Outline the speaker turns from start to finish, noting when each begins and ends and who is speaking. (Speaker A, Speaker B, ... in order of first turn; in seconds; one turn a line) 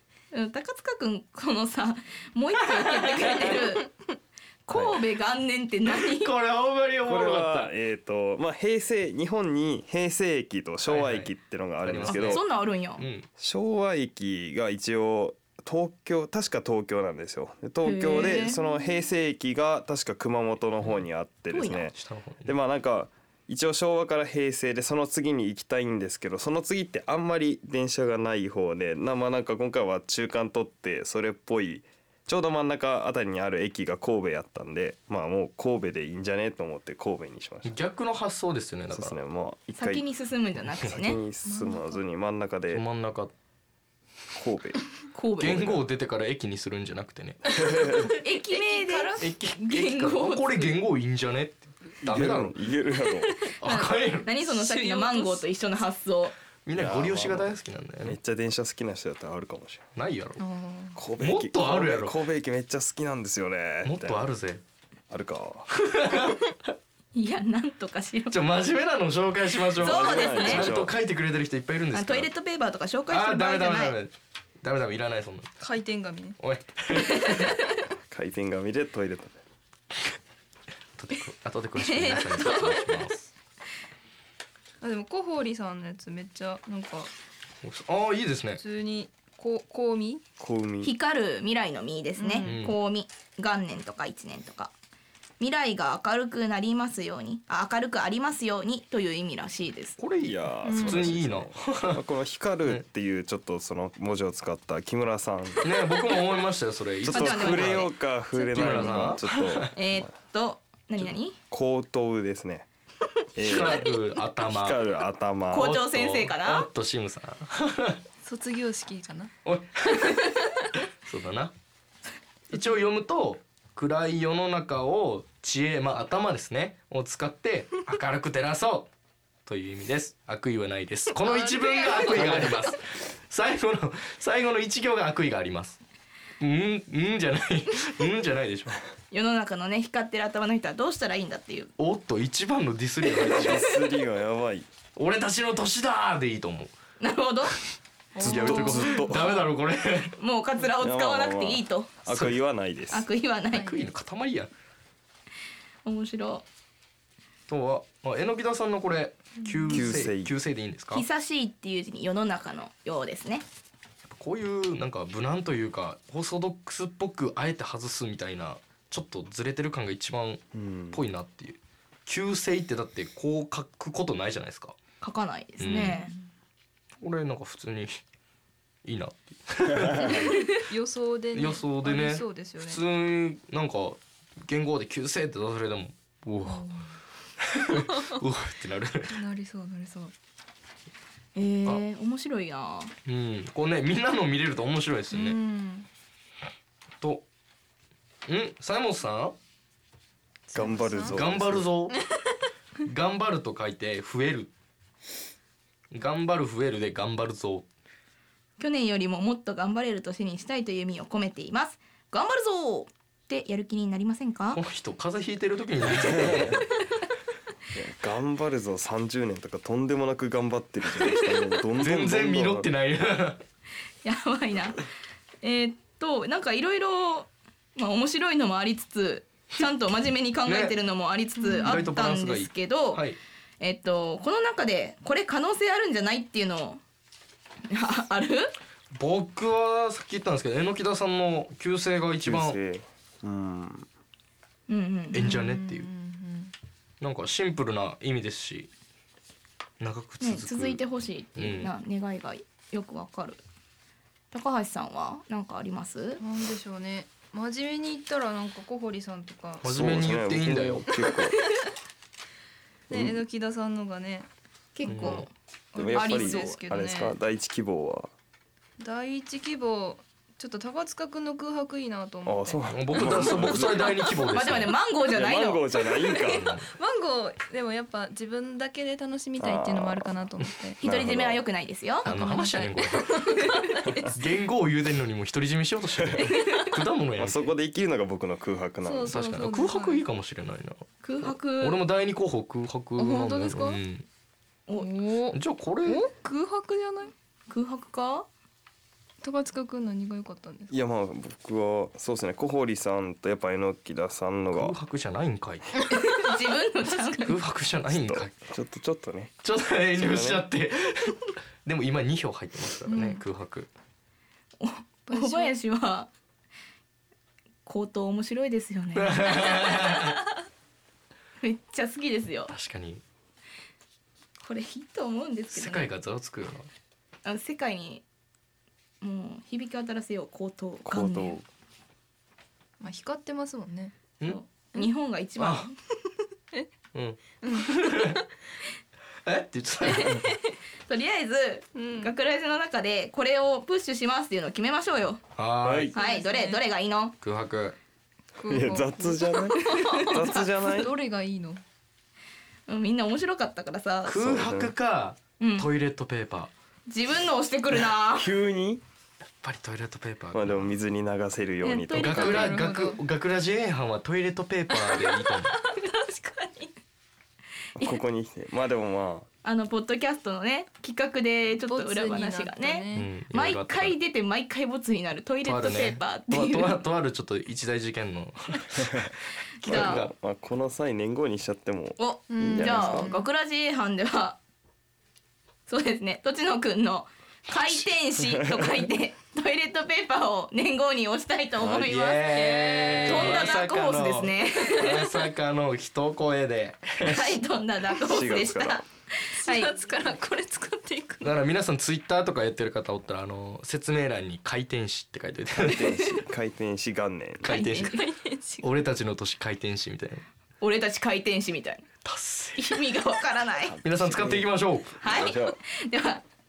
Speaker A: 0.3-3.9
Speaker B: 3.0-3.5
Speaker A: 4.7-6.3
Speaker C: 4.7-5.0
Speaker B: 6.0-7.7
Speaker C: 7.0-12.4
Speaker B: 10.8-11.3
Speaker B: 11.8-12.4
Speaker A: 12.1-13.1
Speaker B: 13.0-13.3
Speaker C: 13.4-37.8
Speaker A: 17.8-18.6
Speaker D: 18.2-18.5
Speaker A: 21.5-21.9
Speaker B: 21.9-22.5
Speaker B: 37.6-39.1
Speaker C: 38.9-40.0
Speaker A: 39.8-41.2
Speaker C: 40.8-42.8
Speaker D: 41.5-42.0
Speaker B: 42.7-43.3
Speaker C: 44.3-44.8
Speaker A: 45.1-45.8
Speaker B: 45.4-47.7
Speaker C: 45.5-45.8
Speaker C: 47.5-48.0
Speaker D: 48.0-49.3
Speaker A: 48.2-50.8
Speaker B: 49.2-52.5
Speaker C: 52.0-53.3
Speaker B: 53.6-54.3
Speaker A: 53.6-56.4
Speaker D: 54.4-55.4
Speaker B: 56.6-58.2
Speaker C: 56.7-59.8
Speaker B: 60.0-60.4
Speaker D: 60.4-61.0
Speaker C: 61.0-64.2
Speaker B: 61.2-62.1
Speaker B: 63.8-64.6
Speaker C: 65.1-65.7
Speaker B: 65.7-66.7
Speaker A: 67.1-68.4
Speaker B: 68.3-72.3
Speaker C: 69.8-70.9
Speaker A: 69.8-70.8
Speaker A: 71.9-74.0
Speaker B: 73.1-75.5
Speaker D: 75.6-76.4
Speaker B: 76.4-77.5
Speaker A: 77.1-77.5
Speaker C: 78.1-79.4
Speaker B: 81.0-83.2
Speaker A: 81.8-83.0
Speaker D: 84.8-87.1
Speaker B: 87.6-88.6
Speaker D: 88.6-90.2
Speaker C: 90.4-90.9
Speaker A: 90.8-94.7
Speaker D: 92.2-92.7
Speaker B: 92.4-92.8
Speaker A: 95.4-100.0
Speaker B: 100.0-102.0
Speaker C: 100.2-105.7
Speaker D: 100.6-101.1
Speaker B: 105.6-107.9
Speaker A: 107.0-107.9
Speaker C: 107.0-109.8
Speaker D: 108.3-109.2
Speaker B: 108.5-109.7
Speaker A: 109.7-111.4
Speaker C: 111.5-112.7
Speaker C: 113.3-115.8
Speaker B: 113.4-114.8
Speaker A: 115.5-116.7
Speaker B: 115.5-118.0
Speaker D: 118.2-119.3
Speaker B: 119.4-120.4
Speaker B: 121.0-121.5
Speaker B: 122.5-128.9
Speaker B: 129.4-135.8
Speaker D: 131.2-132.8
Speaker C: 132.2-132.5
Speaker B: 136.4-138.8
Speaker A: 139.1-141.7
Speaker B: 141.8-143.7
Speaker C: 143.2-144.7
Speaker B: 144.9-146.7
Speaker A: 147.0-147.6
Speaker D: 148.1-149.1
Speaker B: 148.2-150.1
Speaker C: 148.2-149.5
Speaker A: 150.2-151.9
Speaker C: 150.8-153.1
Speaker B: 152.1-152.4
Speaker A: 152.9-153.8
Speaker B: 153.5-154.5
Speaker D: 153.5-153.8
Speaker A: 155.8-156.4
Speaker B: 157.5-161.0
Speaker D: 159.4-159.8
Speaker C: 159.7-160.3
Speaker A: 160.9-163.4
Speaker B: 164.1-174.8
Speaker C: 170.5-171.0
Speaker A: 175.0-176.1
Speaker B: 175.6-176.0
Speaker B: 177.0-178.0
Speaker B: 178.8-180.3
Speaker D: 180.0-182.8
Speaker B: 181.3-186.8
Speaker D: 186.4-186.9
Speaker B: 187.4-189.2
Speaker D: 189.1-190.1
Speaker A: 191.3-192.9
Speaker B: 193.1-195.4
Speaker D: 195.1-195.9
Speaker B: 198.3-199.3
Speaker D: 200.5-201.2
Speaker C: 200.5-201.7
Speaker B: 201.1-201.9
Speaker B: 202.8-204.5
Speaker B: 205.9-207.7
Speaker A: 208.6-214.6
Speaker B: 214.5-216.7
Speaker C: 216.1-216.6
Speaker C: 217.7-222.7
Speaker B: 221.8-223.4
Speaker A: 224.0-224.8
Speaker A: 225.4-233.0
Speaker B: 230.5-230.7
Speaker D: 231.4-231.8
Speaker B: 231.6-233.2
Speaker A: 233.6-236.8
Speaker A: 237.7-238.5
Speaker B: 238.9-242.6
Speaker C: 242.2-243.9
Speaker A: 244.7-245.2
Speaker B: 245.1-245.9
Speaker D: 245.1-246.5
Speaker B: 247.0-248.7
Speaker B: 249.8-250.8
Speaker A: 250.2-253.4
Speaker B: 251.3-251.7
Speaker A: 254.3-256.2
Speaker D: 256.2-259.9
Speaker B: 259.6-260.9
Speaker C: 259.6-261.4
Speaker D: 262.9-264.3
Speaker C: 262.9-263.2
Speaker A: 264.8-266.6
Speaker D: 264.8-267.1
Speaker B: 264.9-265.3
Speaker C: 265.7-268.1
Speaker D: 268.8-273.6
Speaker C: 272.2-273.9
Speaker B: 272.7-274.8
Speaker A: 274.0-276.4
Speaker C: 275.1-276.5
Speaker B: 276.3-276.7
Speaker D: 276.8-280.8
Speaker C: 279.4-280.2
Speaker A: 280.8-282.1
Speaker C: 280.8-281.4
Speaker D: 282.0-284.1
Speaker B: 282.0-287.4
Speaker C: 287.2-289.2
Speaker D: 288.8-290.0
Speaker B: 289.1-294.0
Speaker A: 291.0-291.8
Speaker D: 293.0-293.8
Speaker A: 294.7-294.9
Speaker D: 294.8-297.1
Speaker B: 295.3-296.0
Speaker A: 297.5-298.3
Speaker D: 299.2-300.8
Speaker C: 300.7-304.8
Speaker B: 304.5-305.9
Speaker D: 305.9-306.4
Speaker A: 305.9-307.4
Speaker B: 307.1-308.3
Speaker C: 307.9-309.3
Speaker B: 309.4-313.7
Speaker C: 309.9-310.5
Speaker D: 312.9-313.2
Speaker A: 314.6-316.1
Speaker D: 315.1-315.6
Speaker A: 317.6-320.1
Speaker B: 318.9-320.2
Speaker A: 321.4-322.5
Speaker B: 322.5-323.0
Speaker A: 324.4-325.9
Speaker B: 325.5-326.7
Speaker A: 327.2-328.0
Speaker A: 329.0-331.4
Speaker C: 330.8-331.4
Speaker D: 332.8-333.9
Speaker A: 334.2-335.7
Speaker B: 335.4-335.7
Speaker B: 336.9-338.2
Speaker D: 337.4-338.2
Speaker B: 339.2-340.3
Speaker A: 339.9-345.2
Speaker D: 341.7-342.1
Speaker B: 345.4-345.9
Speaker C: 345.6-345.9
Speaker D: 345.9-346.6
Speaker A: 345.9-347.1
Speaker B: 347.2-347.8
Speaker D: 348.4-351.6
Speaker C: 348.4-350.9
Speaker A: 349.7-350.1
Speaker A: 352.7-354.2
Speaker B: 354.1-356.5
Speaker C: 354.2-354.7
Speaker A: 355.4-355.7
Speaker A: 356.9-358.3
Speaker C: 358.1-358.8
Speaker B: 359.4-360.7
Speaker C: 360.3-362.6
Speaker D: 361.6-363.0
Speaker B: 361.9-365.6
Speaker D: 364.7-366.7
Speaker C: 367.8-369.3
Speaker A: 369.4-376.8
Speaker D: 371.7-373.1
Speaker B: 372.9-373.9
Speaker B: 375.4-380.1
Speaker A: 379.6-380.0
Speaker C: 379.7-383.1
Speaker A: 382.0-384.4
Speaker D: 382.3-383.3
Speaker A: 385.7-392.3
Speaker C: 388.2-388.9
Speaker C: 391.6-391.9
Speaker B: 391.6-397.3
Speaker D: 392.2-393.6
Speaker A: 393.0-395.0
Speaker D: 394.6-395.1
Speaker A: 397.0-399.7
Speaker C: 398.0-398.8
Speaker D: 399.4-401.3
Speaker B: 401.2-405.9
Speaker C: 405.6-407.6
Speaker A: 405.8-406.0
Speaker B: 407.4-408.0
Speaker A: 407.4-408.1
Speaker D: 407.7-408.6
Speaker B: 408.6-410.2
Speaker A: 410.6-411.9
Speaker B: 412.0-412.8
Speaker A: 412.6-413.8
Speaker C: 413.6-415.6
Speaker B: 413.8-415.0
Speaker A: 415.0-416.2